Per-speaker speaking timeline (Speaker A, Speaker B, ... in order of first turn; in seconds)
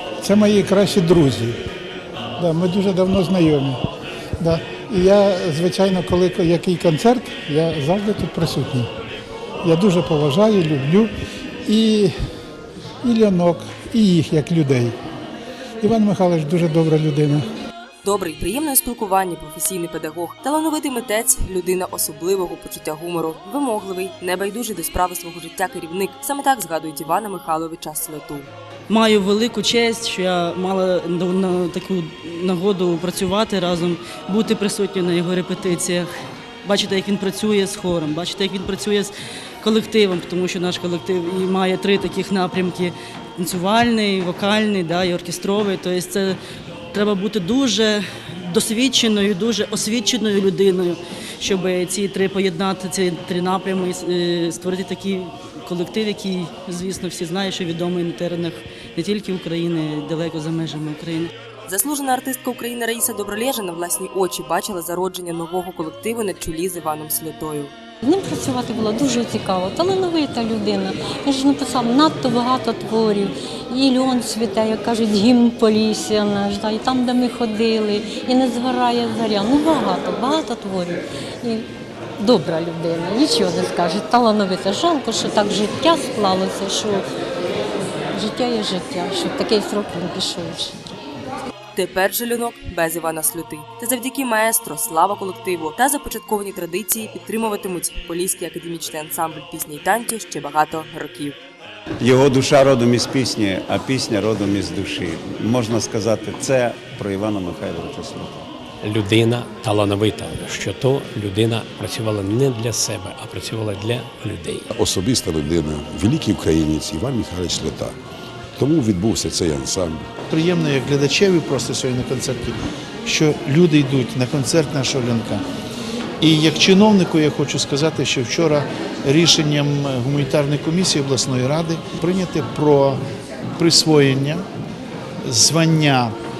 Speaker A: 0.2-1.6, 2.4-3.8, 4.4-8.9, 9.6-11.1, 11.6-12.1, 13.0-15.0, 15.8-17.5
Speaker B: 18.0-28.5, 61.7-67.7, 91.8-101.4
Speaker C: 28.9-36.1, 36.6-46.4, 46.9-61.3
Speaker D: 68.0-81.7, 82.2-87.0, 88.1-90.8
Speaker E: 102.0-108.4
Speaker F: 108.8-114.7
Speaker G: 114.8-117.9, 118.6-120.0
Speaker H: 120.3-125.4, 126.2-133.0, 133.6-134.4, 135.2-136.1